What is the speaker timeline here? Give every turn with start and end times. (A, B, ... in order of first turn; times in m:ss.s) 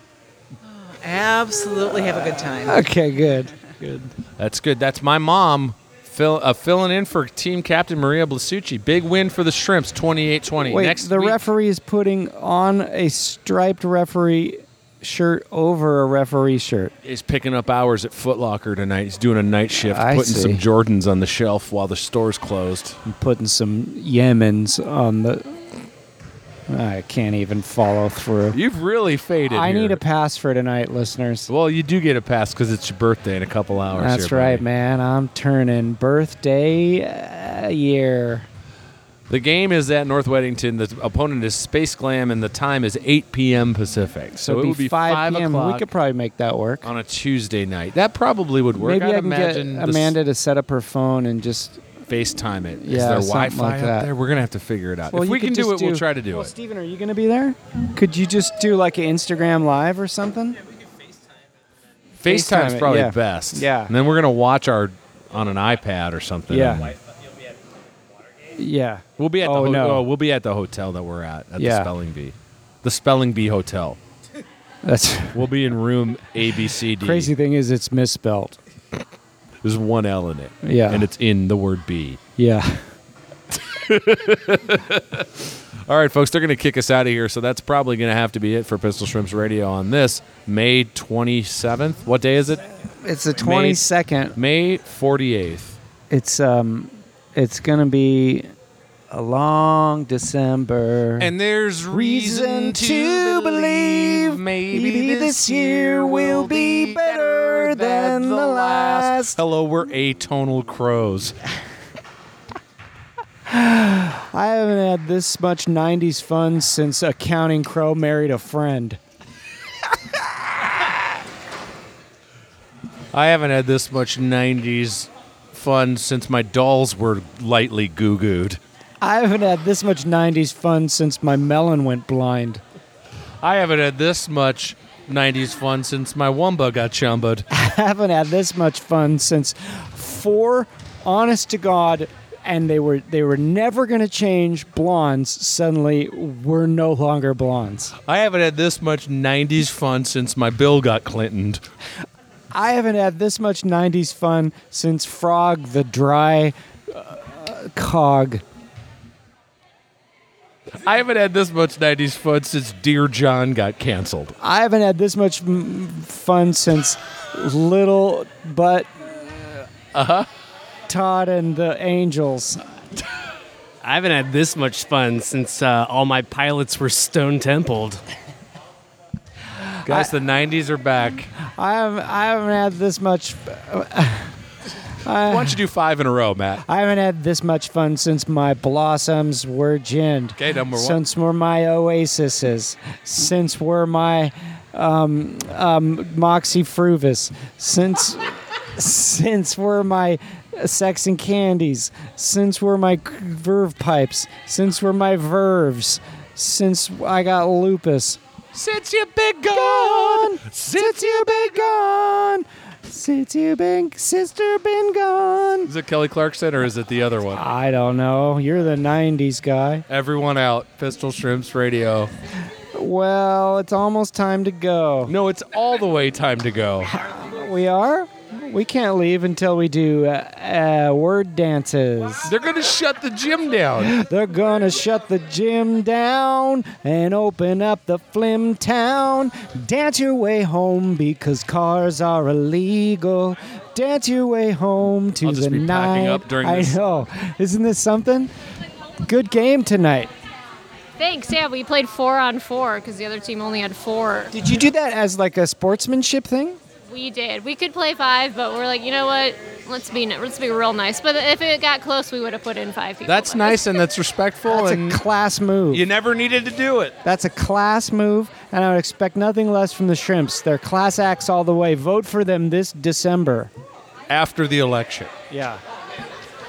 0:00.6-0:02.8 A
0:02.6-0:04.1 B
0:04.4-0:11.4 C
0:10.7-0:16.9 B
0:17.0-0:23.0 C
0:19.8-0:20.6 B
0:23.1-0:25.6 B
0:26.7-0:28.6 B
0:28.5-0:30.0 C
0:29.5-0:31.5 B
0:31.5-0:34.6 C
0:34.0-0:38.5 B
0:39.3-0:45.9 C
0:44.4-0:46.9 B
0:46.8-0:50.2 C
0:48.8-0:51.8 B
0:52.1-0:56.5 C
0:52.8-0:54.1 B
0:55.1-1:00.6 B
1:02.2-1:07.0 C
1:02.2-1:03.9 B
1:06.5-1:06.9 B
1:08.6-1:10.0 B
1:09.2-1:14.0 C
1:11.6-1:11.9 B
1:14.8-1:15.4 B
1:15.3-1:17.3 C
1:17.0-1:18.6 B
1:19.6-1:22.2 C
1:20.6-1:21.1 B
1:22.4-1:22.9 B
1:23.5-1:32.6 C
1:33.0-1:34.4 B
1:33.4-1:33.8 C
1:34.4-1:35.8 C
1:36.1-1:38.5 B
1:39.1-1:41.3 B
1:41.2-1:51.4 C
1:41.9-1:49.4 B
1:53.5-1:59.0 B
2:03.1-2:08.6 C
2:09.0-2:12.6 B
2:13.4-2:17.5 C
2:17.5-2:28.0 B
2:28.0-2:31.6 C
2:32.5-2:38.4 B
2:40.7-2:44.4 C
2:44.4-2:49.7 B
2:49.9-2:50.3 C
2:50.9-2:52.7 B
2:53.8-2:58.0 D
2:59.8-3:00.1 B
2:59.9-3:01.3 C
3:01.4-3:04.4 B
3:05.0-3:05.6 B
3:05.2-3:06.6 C
3:06.7-3:28.2 B
3:10.4-3:11.0 C
3:28.5-3:31.8 C
3:29.5-3:35.7 B
3:35.6-3:37.4 C
3:37.4-3:39.8 B
3:39.9-3:42.1 C
3:42.7-3:45.1 B
3:45.1-3:46.9 C
3:46.9-3:52.3 B
3:52.2-3:54.0 C
3:53.8-4:08.3 B
4:05.2-4:06.8 C
4:09.1-4:10.1 B
4:11.0-4:14.3 E
4:14.3-4:16.6 B
4:16.9-4:23.7 E
4:23.1-4:25.0 C
4:24.5-4:25.8 B
4:25.7-4:27.0 C
4:27.0-4:33.5 B
4:34.1-4:35.1 C
4:35.3-4:35.6 B